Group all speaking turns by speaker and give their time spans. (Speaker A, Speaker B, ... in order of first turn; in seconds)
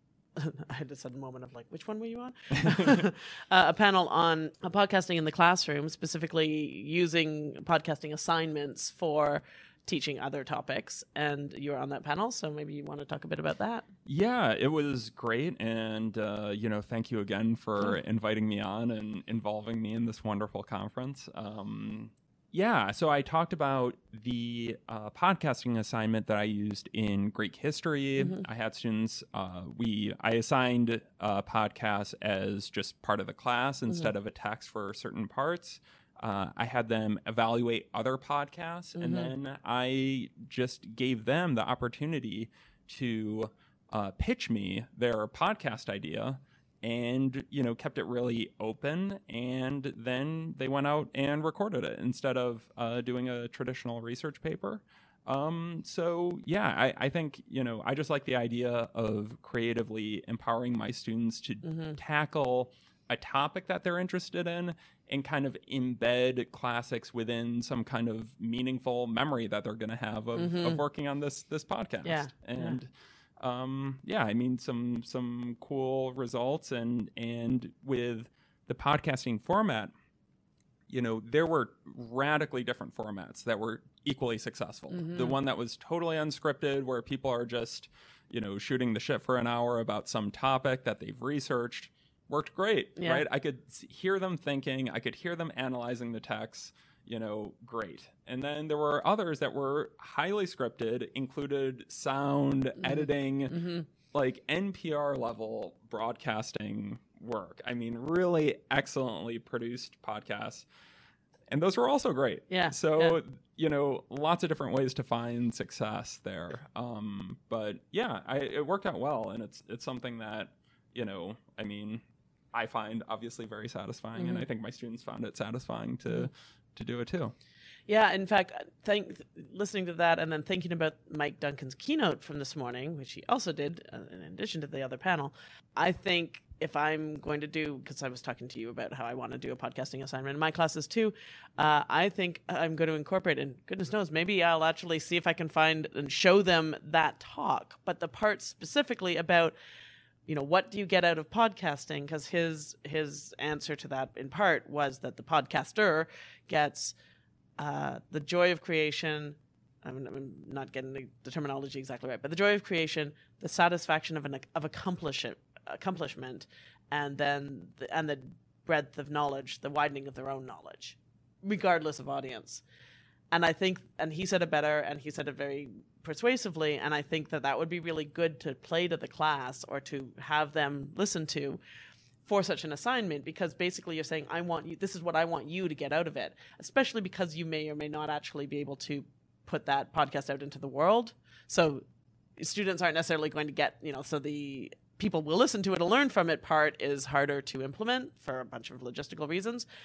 Speaker A: 0.4-13.8, 39.0-39.3, 61.6-62.0, 70.4-70.8, 72.0-72.8, 84.9-85.3, 93.0-93.2, 102.8-103.9, 112.5-113.2, 124.2-124.5, 127.9-149.6, 150.3-156.9, 157.6-172.6, 173.3-181.6, 182.2-191.8, 192.4-199.7
Speaker B: 14.1-79.9, 80.9-103.6, 104.1-110.7, 111.5-122.0, 122.5-127.3